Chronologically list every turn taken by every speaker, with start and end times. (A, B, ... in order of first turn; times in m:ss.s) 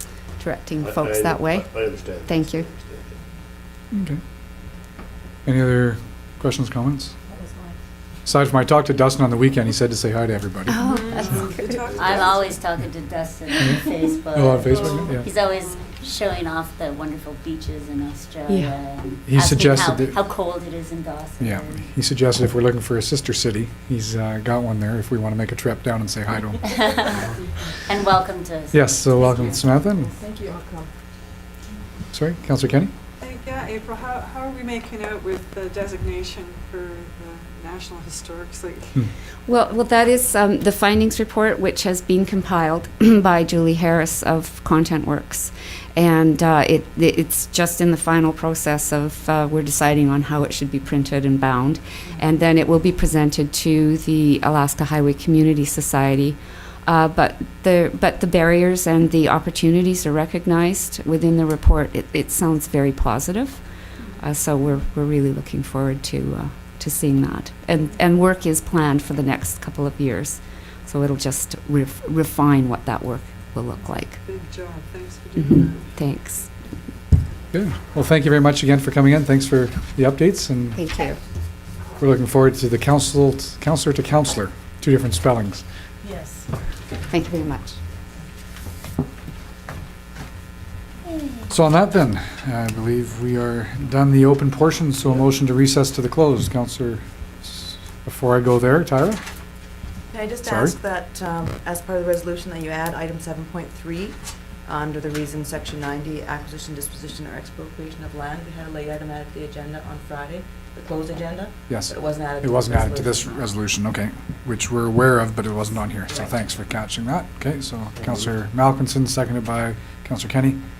0:00.4-0:01.7 A
0:00.8-0:03.2 B
0:02.2-0:02.7 A
0:03.9-0:04.2 C
0:05.4-0:07.1 C
0:08.2-0:10.8 C
0:10.7-0:11.4 A
0:10.8-0:12.5 D
0:11.2-0:21.8 E
0:11.8-0:12.2 B
0:14.3-0:15.3 C
0:14.7-0:15.8 D
0:18.5-0:18.7 A
0:19.3-0:20.2 C
0:21.4-0:27.0 C
0:26.7-0:27.3 E
0:27.8-0:29.6 E
0:28.7-0:30.1 C
0:30.1-0:30.9 F
0:32.1-0:32.9 C
0:33.2-0:38.9 D
0:39.5-1:03.6 A
1:04.2-1:14.2 A
1:14.2-1:16.0 D
1:15.4-1:16.5 A
1:17.5-1:20.8 C
1:20.7-1:21.2 A
1:22.0-1:25.6 C
1:26.0-1:26.4 F
1:27.1-1:27.8 A
1:31.5-1:39.2 C
1:40.1-1:53.4 F
1:40.4-1:40.7 C
1:51.7-2:00.6 C